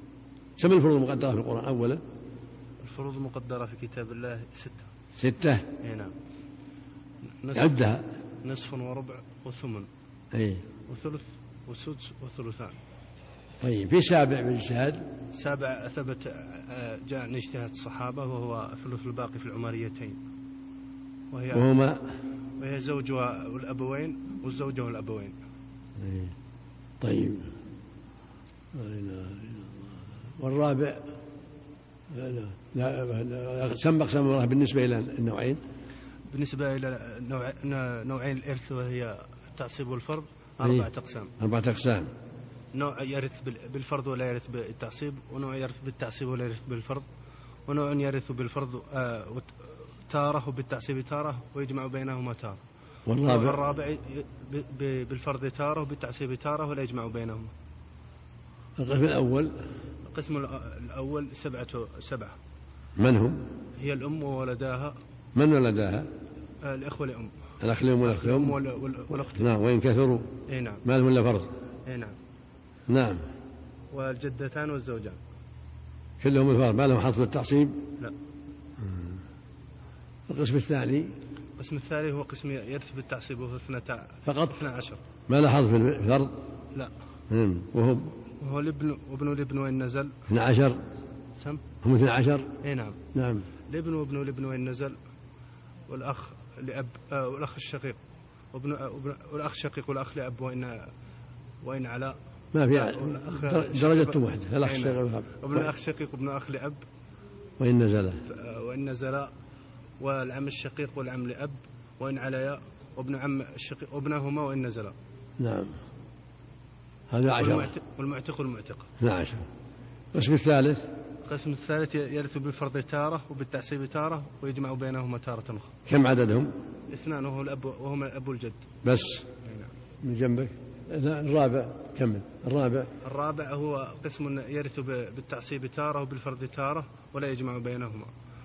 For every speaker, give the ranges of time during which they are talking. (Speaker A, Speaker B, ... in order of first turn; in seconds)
Speaker A: 0.6-2.0, 5.2-5.7, 7.5-8.1, 10.3-10.7, 13.6-15.1, 21.5-22.0, 26.0-26.4, 27.0-27.5, 28.7-31.1, 32.1-35.6, 40.6-40.9, 41.4-42.1, 53.1-53.6, 58.8-59.6, 63.0-63.5, 65.3-66.1, 67.6-68.6, 69.3-70.3, 70.8-71.5, 72.9-73.3, 76.2-77.8, 78.8-79.2, 80.3-81.1, 84.2-84.6, 85.3-86.4, 87.3-88.2, 90.3-90.8, 91.8-92.5, 93.1-93.5, 102.5-105.7, 107.6-108.2, 115.4-115.8, 117.1-117.7, 119.0-119.5, 120.1-120.9, 125.9-126.5, 128.8-129.3, 130.0-132.9
Speaker B: 2.8-4.9, 5.8-6.1, 7.4-7.8, 8.4-9.9, 10.9-12.8, 15.3-20.2, 21.3-21.7, 22.6-25.4, 36.3-41.3, 42.7-47.0, 47.7-52.6, 53.2-57.5, 60.1-62.4, 63.8-65.0, 66.6-67.3, 68.0-69.5, 70.5-70.8, 71.9-72.2, 73.9-75.2, 81.6-85.0, 88.4-90.1, 91.4-91.6, 92.6-93.0, 93.7-95.0, 95.9-98.0, 98.5-100.9, 101.6-102.2, 102.7-106.8, 108.3-109.3, 110.0-115.0, 117.4-118.9, 121.2-125.7, 126.9-128.6, 129.4-129.7, 133.0-138.1